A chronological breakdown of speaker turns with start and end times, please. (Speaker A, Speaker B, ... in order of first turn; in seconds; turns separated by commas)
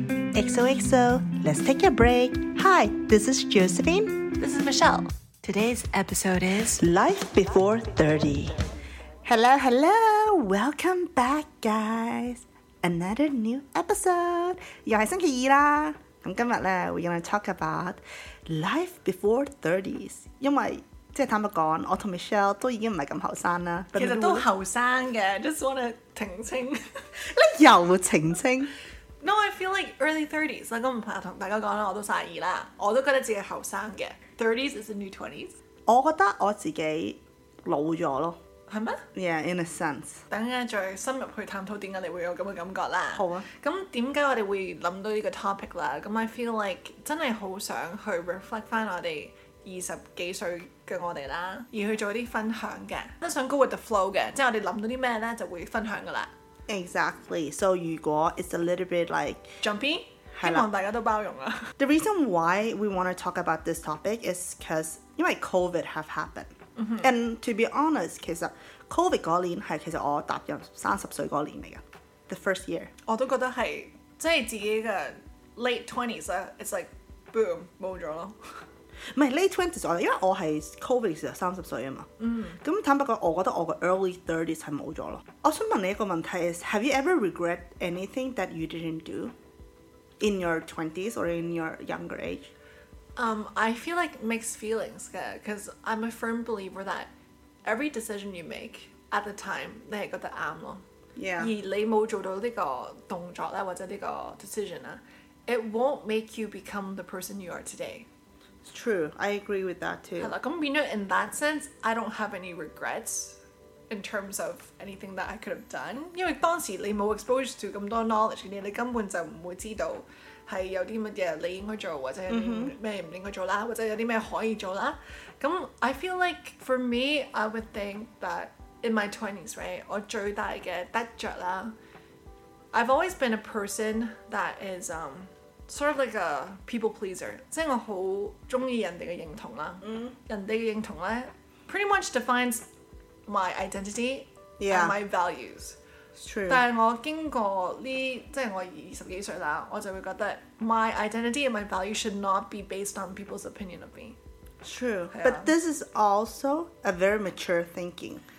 Speaker A: 0.3-4.3, Speaker B: 4.4-6.8, Speaker A: 6.8-8.6, Speaker A: 9.2-24.5, Speaker B: 23.9-26.8, Speaker A: 27.3-28.7, Speaker B: 29.2-35.6, Speaker A: 35.9-38.4, Speaker B: 38.7-39.0, Speaker A: 39.1-40.2, Speaker B: 40.3-56.3, Speaker A: 43.1-43.5, Speaker A: 56.7-59.6, Speaker B: 59.6-61.7, Speaker A: 60.4-60.7, Speaker A: 61.8-72.9, Speaker B: 66.8-67.1, Speaker B: 73.1-78.4, Speaker A: 79.2-82.1, Speaker B: 82.2-82.6, Speaker A: 82.6-89.3, Speaker A: 90.2-92.5, Speaker B: 93.2-97.1, Speaker B: 97.7-100.8, Speaker A: 101.2-101.5, Speaker B: 101.4-108.1, Speaker A: 108.7-110.3, Speaker B: 110.2-131.7, Speaker A: 122.3-122.7, Speaker B: 132.7-142.7, Speaker A: 139.8-140.2, Speaker B: 143.3-145.8, Speaker A: 144.6-145.0, Speaker A: 146.2-146.7, Speaker B: 146.5-154.2, Speaker A: 154.6-158.2, Speaker B: 155.1-155.5